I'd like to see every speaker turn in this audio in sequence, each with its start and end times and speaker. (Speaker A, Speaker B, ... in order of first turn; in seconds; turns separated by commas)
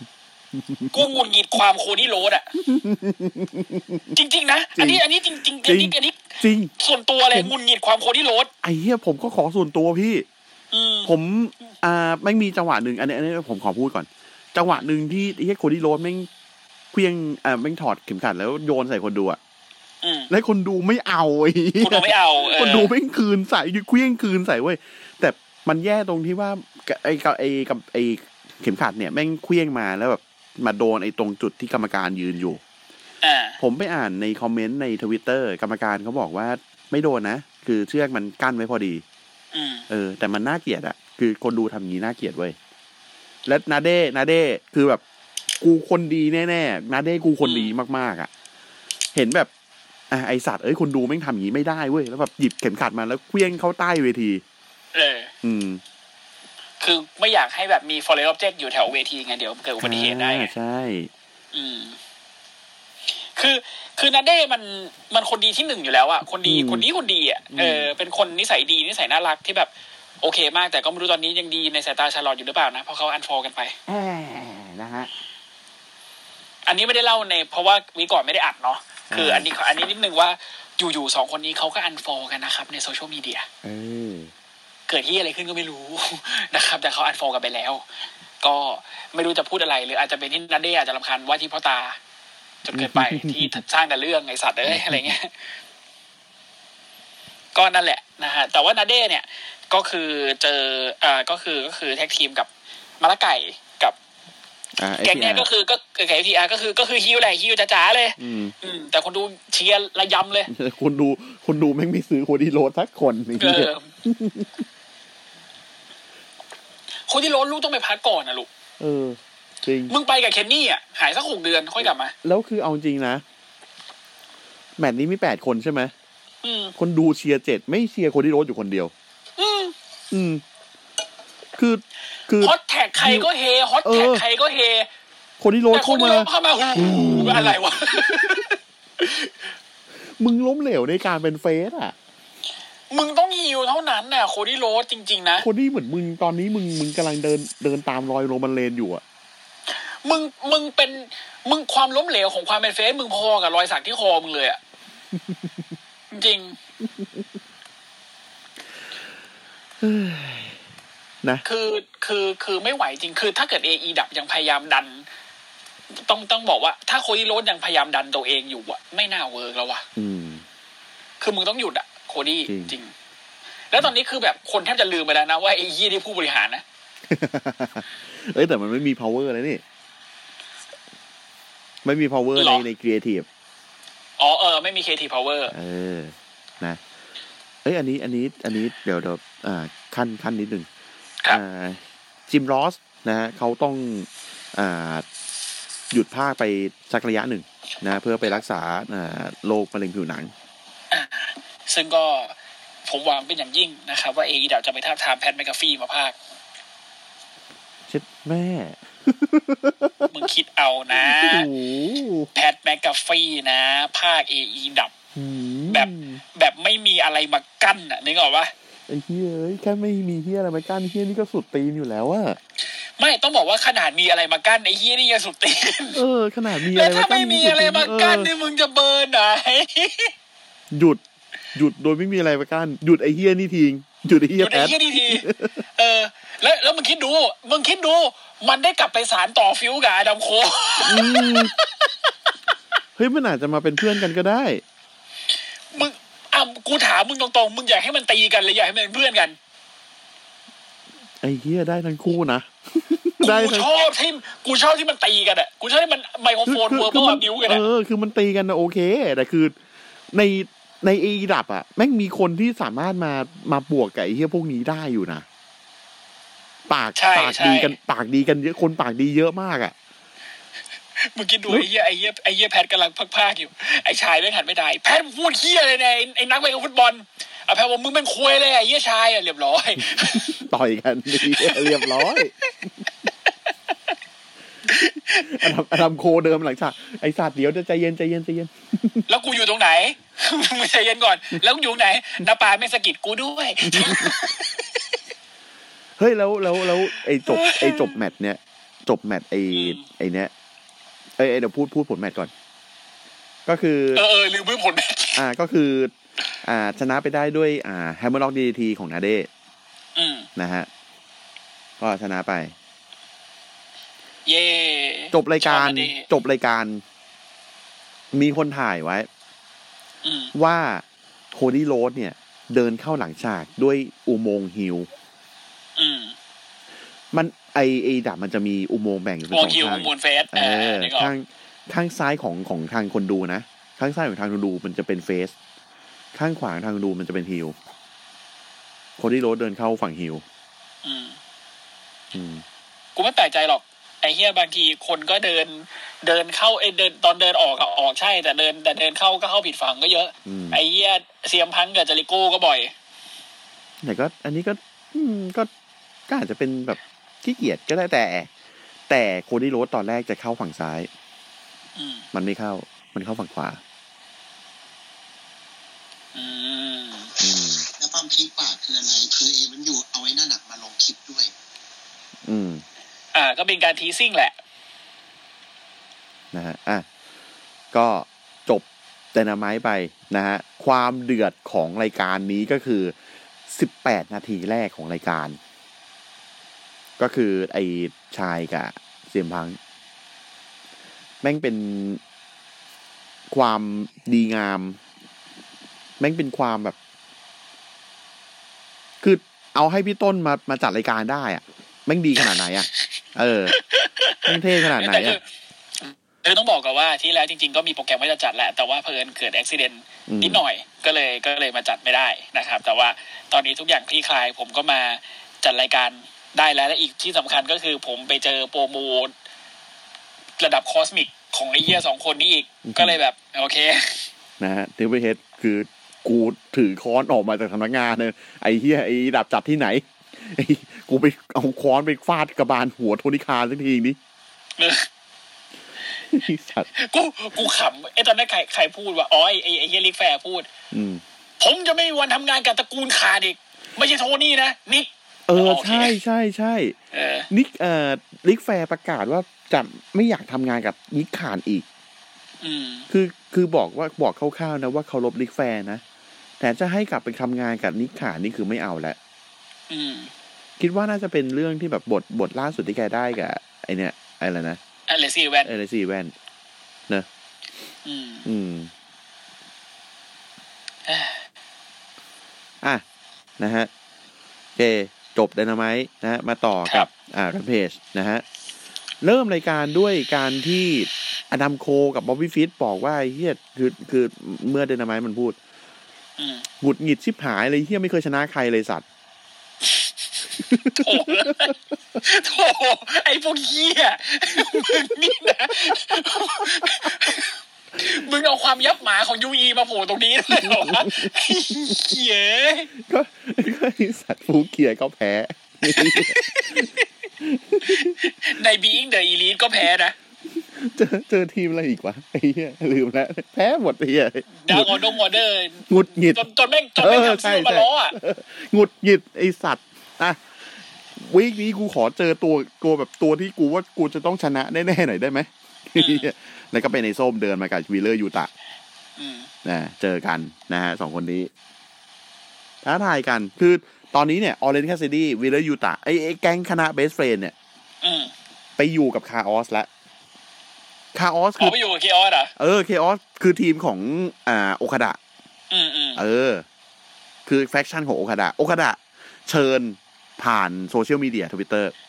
Speaker A: 0.9-2.5, Speaker B: 2.6-4.0, Speaker A: 4.1-8.5, Speaker B: 4.8-5.0, Speaker B: 5.6-6.7, Speaker B: 8.6-10.3, Speaker A: 10.7-11.1, Speaker B: 11.1-16.3, Speaker B: 16.9-19.4, Speaker A: 20.0-20.3, Speaker B: 20.3-32.6, Speaker A: 21.8-22.9, Speaker A: 33.2-33.6, Speaker B: 33.6-39.0, Speaker A: 39.5-39.9, Speaker B: 39.9-42.6, Speaker B: 43.5-45.0, Speaker B: 45.6-48.3, Speaker A: 47.4-47.7, Speaker B: 49.1-49.5, Speaker B: 50.1-54.4, Speaker A: 54.9-55.3, Speaker B: 55.4-55.8, Speaker A: 56.8-60.5, Speaker B: 59.8-61.1, Speaker A: 61.5-62.0, Speaker A: 63.1-69.7, Speaker B: 66.5-66.8, Speaker B: 67.5-67.9, Speaker A: 70.2-73.8, Speaker B: 73.9-75.1, Speaker A: 76.7-83.5, Speaker B: 79.1-79.5, Speaker B: 83.6-84.3, Speaker A: 84.9-87.8, Speaker A: 88.4-92.0, Speaker A: 92.6-95.3, Speaker B: 92.7-93.6, Speaker B: 94.7-95.1, Speaker A: 97.5-104.0, Speaker B: 104.8-105.5, Speaker A: 105.0-110.5, Speaker B: 108.2-108.5, Speaker B: 110.5-114.6, Speaker A: 113.4-113.9, Speaker A: 117.1-118.5, Speaker B: 118.8-119.9, Speaker A: 119.9-122.1, Speaker B: 122.2-123.2, Speaker B: 124.8-125.9, Speaker A: 126.4-126.7, Speaker B: 126.8-128.9, Speaker A: 129.4-129.8, Speaker B: 130.1-130.4, Speaker B: 131.6-133.3, Speaker A: 132.4-134.9, Speaker B: 133.8-134.2, Speaker B: 135.4-138.4, Speaker A: 135.7-139.3, Speaker B: 140.2-141.9, Speaker A: 142.9-145.5, Speaker B: 145.4-149.0, Speaker A: 150.0-154.6, Speaker A: 156.1-156.6, Speaker B: 159.8-160.6, Speaker A: 161.4-165.1, Speaker A: 165.9-169.8, Speaker B: 170.0-170.4, Speaker A: 171.2-172.9, Speaker B: 172.5-172.7, Speaker A: 173.7-176.6, Speaker B: 177.1-179.6, Speaker B: 181.8-183.3, Speaker A: 182.4-182.7, Speaker A: 184.2-185.5, Speaker B: 185.5-186.8, Speaker B: 187.6-190.7, Speaker B: 191.3-195.1, Speaker B: 195.9-200.3, Speaker A: 200.9-202.3, Speaker A: 202.9-206.2, Speaker B: 207.9-210.1, Speaker A: 210.1-211.5, Speaker B: 210.9-212.3, Speaker A: 212.3-214.9, Speaker B: 215.2-216.2, Speaker A: 215.7-218.5, Speaker B: 218.9-222.4, Speaker A: 223.0-226.0, Speaker B: 225.9-228.3, Speaker A: 226.7-230.1, Speaker B: 230.7-231.0, Speaker B: 231.5-235.6, Speaker A: 234.4-241.9, Speaker B: 240.8-241.5, Speaker B: 243.0-244.6, Speaker A: 245.7-249.4, Speaker B: 251.2-253.7, Speaker A: 253.2-257.6, Speaker B: 256.5-259.6, Speaker B: 260.1-265.3, Speaker B: 266.7-269.7, Speaker A: 267.0-267.8, Speaker A: 271.0-280.4, Speaker B: 279.9-282.3, Speaker A: 281.2-282.2, Speaker A: 284.7-285.4, Speaker B: 284.8-289.1, Speaker A: 289.1-294.6, Speaker B: 293.6-294.2, Speaker B: 296.0-300.3, Speaker A: 297.3-298.0, Speaker A: 299.5-299.9, Speaker B: 301.2-302.3, Speaker B: 303.5-304.1, Speaker A: 303.9-305.2, Speaker B: 305.1-305.9, Speaker B: 306.4-309.3, Speaker A: 310.0-310.3, Speaker B: 310.4-310.7, Speaker B: 311.8-312.5, Speaker A: 314.3-316.1, Speaker B: 315.1-316.8, Speaker B: 318.1-319.1, Speaker A: 320.0-320.3, Speaker B: 320.3-324.9, Speaker A: 325.8-326.2, Speaker B: 327.1-335.3, Speaker A: 329.3-331.1, Speaker B: 336.1-337.6, Speaker B: 339.0-340.2, Speaker A: 340.8-341.2, Speaker B: 342.1-342.4, Speaker A: 343.0-352.7, Speaker B: 350.3-350.6, Speaker B: 353.8-355.5, Speaker B: 356.1-358.3, Speaker B: 358.9-360.9, Speaker A: 361.8-362.1, Speaker B: 362.1-363.6, Speaker A: 366.1-367.2, Speaker B: 367.2-367.7, Speaker C: 367.7-371.3, Speaker B: 372.2-372.6, Speaker A: 373.1-374.4, Speaker B: 376.3-376.9, Speaker B: 377.7-382.9, Speaker B: 383.5-385.4, Speaker B: 387.0-389.6, Speaker B: 391.2-392.0, Speaker B: 393.3-394.8, Speaker B: 396.0-396.8, Speaker B: 399.0-403.6, Speaker A: 403.5-405.2, Speaker B: 404.3-405.2, Speaker A: 405.8-419.1, Speaker B: 410.1-410.4, Speaker A: 420.4-424.1, Speaker B: 422.6-423.0, Speaker B: 424.4-434.0, Speaker A: 434.6-434.9, Speaker B: 436.1-436.7, Speaker A: 436.8-440.5, Speaker B: 440.7-441.0, Speaker A: 441.4-446.0, Speaker B: 445.3-446.8, Speaker A: 446.9-447.3, Speaker B: 447.3-451.7, Speaker A: 452.4-452.9, Speaker B: 452.9-455.8, Speaker B: 456.4-459.0, Speaker A: 459.7-460.1, Speaker B: 460.6-464.6, Speaker A: 464.9-465.5, Speaker B: 465.4-466.1, Speaker A: 467.9-468.3, Speaker B: 468.2-468.7, Speaker A: 470.9-471.2, Speaker B: 473.4-473.7, Speaker B: 474.6-478.2, Speaker B: 479.0-485.4, Speaker A: 486.2-486.5, Speaker B: 486.6-488.8, Speaker B: 490.5-491.5, Speaker A: 490.8-502.7, Speaker B: 496.6-496.9, Speaker B: 500.3-501.9, Speaker B: 502.8-506.7, Speaker A: 505.7-506.8, Speaker B: 507.2-508.0, Speaker A: 507.6-509.9, Speaker B: 510.4-514.9, Speaker A: 514.4-518.0, Speaker B: 515.7-516.2, Speaker B: 516.8-520.2, Speaker B: 521.0-528.3, Speaker A: 525.8-526.1, Speaker A: 529.0-529.3, Speaker B: 529.5-531.3, Speaker B: 532.6-537.3, Speaker A: 537.8-538.1, Speaker B: 538.6-539.7, Speaker B: 540.9-541.6, Speaker A: 541.4-542.3, Speaker B: 542.4-545.0, Speaker A: 545.5-546.0, Speaker B: 546.0-546.5, Speaker B: 547.3-551.7